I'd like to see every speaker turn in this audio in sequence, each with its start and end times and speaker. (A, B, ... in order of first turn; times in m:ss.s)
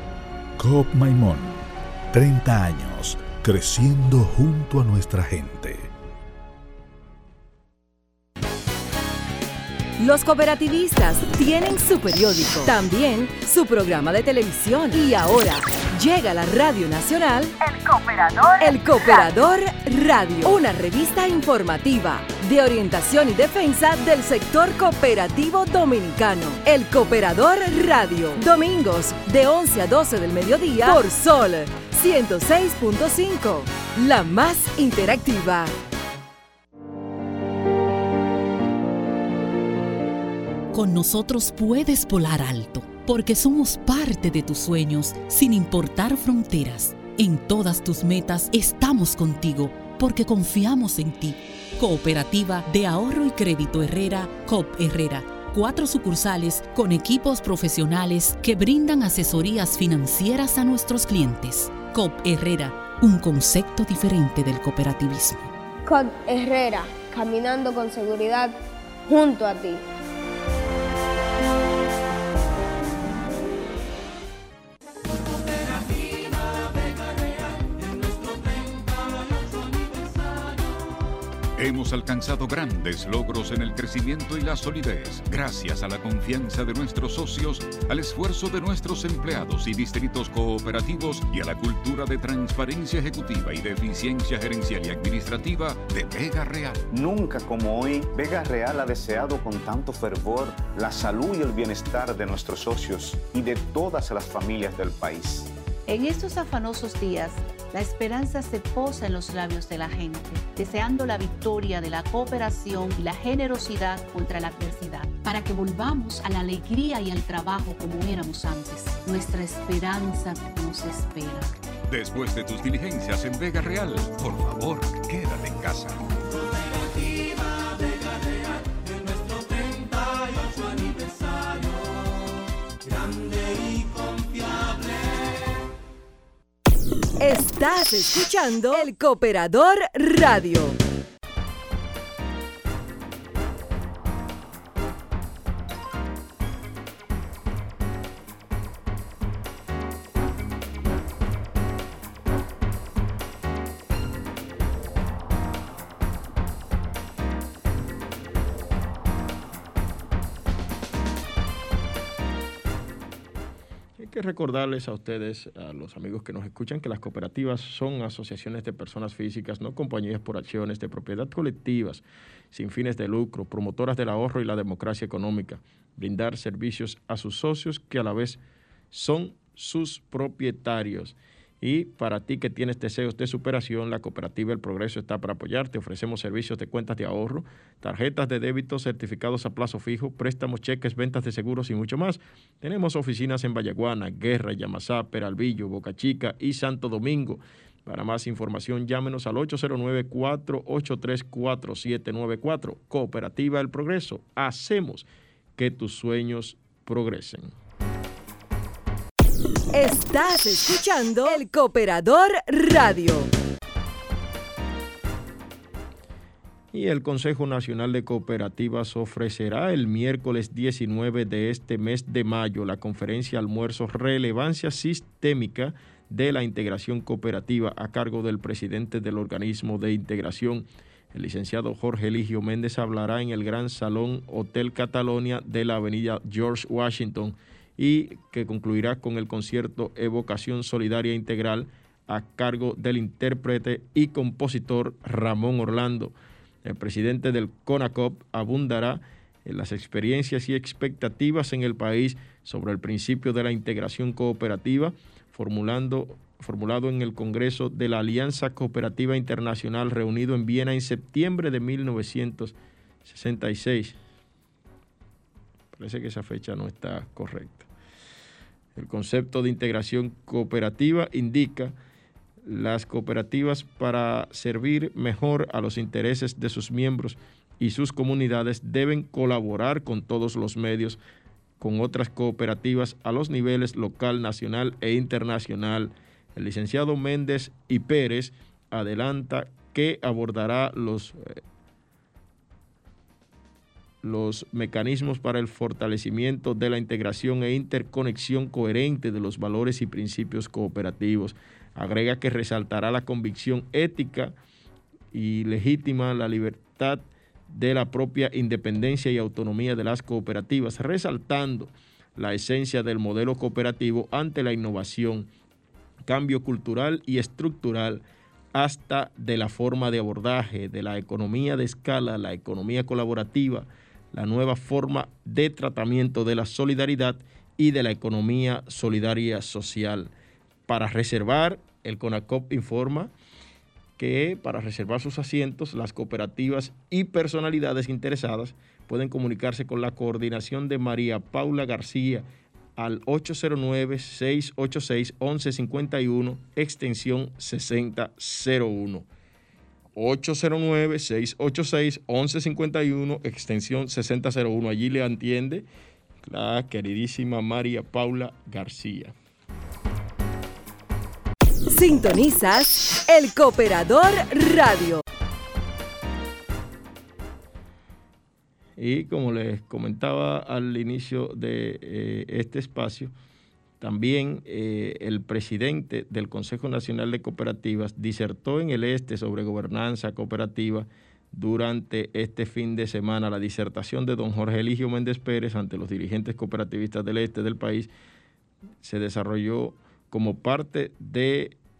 0:00.6-0:05.9 A
0:10.0-0:17.5 B
0:17.6-0:19.2 C
0:18.6-0:35.7 B
0:40.7-1:05.5 D
1:05.8-1:09.8 C
1:21.6-1:36.8 E
1:36.9-1:45.5 F
1:45.9-2:01.5 G
2:01.9-2:06.1 E
2:17.2-2:20.8 B
2:44.0-2:58.4 H
2:58.9-3:27.5 H
3:29.7-3:33.3 B
3:36.7-4:06.1 H
4:06.6-4:24.0 H
4:25.7-4:27.7 H
4:28.8-4:31.7 H
4:32.4-4:41.0 H
4:41.6-4:51.4 H
4:54.0-5:04.3 H
5:05.1-5:15.3 H
5:16.0-5:18.0 H
5:18.5-5:30.1 H
5:30.7-5:33.1 H
5:34.0-5:42.2 H
5:42.8-5:49.1 H
5:49.9-5:55.6 H
5:56.2-5:59.1 H
6:01.7-6:05.0 B
6:08.8-6:13.1 H
6:13.8-6:27.9 H
6:28.8-6:31.6 H